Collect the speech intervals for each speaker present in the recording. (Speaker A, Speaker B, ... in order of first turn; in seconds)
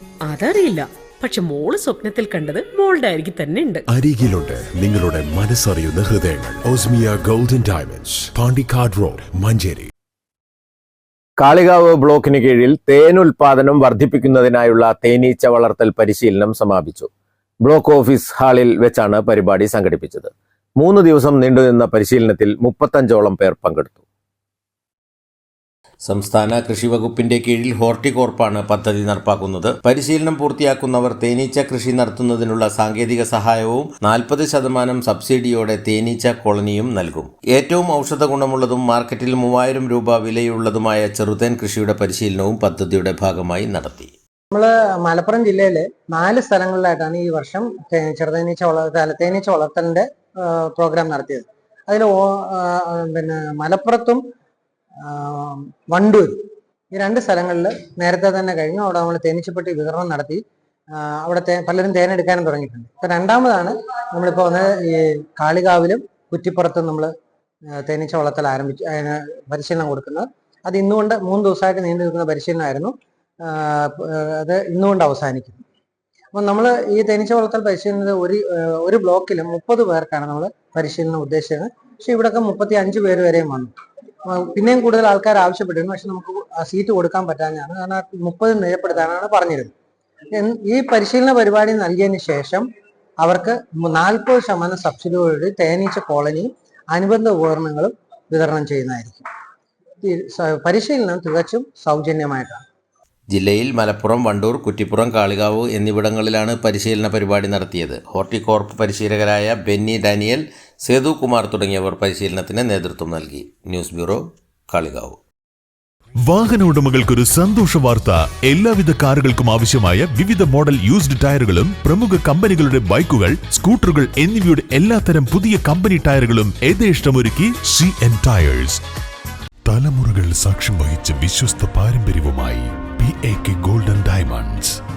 Speaker A: 0.3-3.8
Speaker B: 3.9-9.9
Speaker C: 11.4-17.1, 17.6-24.0, 26.1-44.1, 103.3-115.2
Speaker D: 44.5-54.2, 55.0-56.4, 56.9-60.4, 61.0-67.1, 67.8-72.9, 73.5-75.6, 76.3-83.7, 84.3-89.7, 90.3-92.7, 93.2-99.2, 100.0-102.6
Speaker E: 116.3-128.8, 129.7-134.7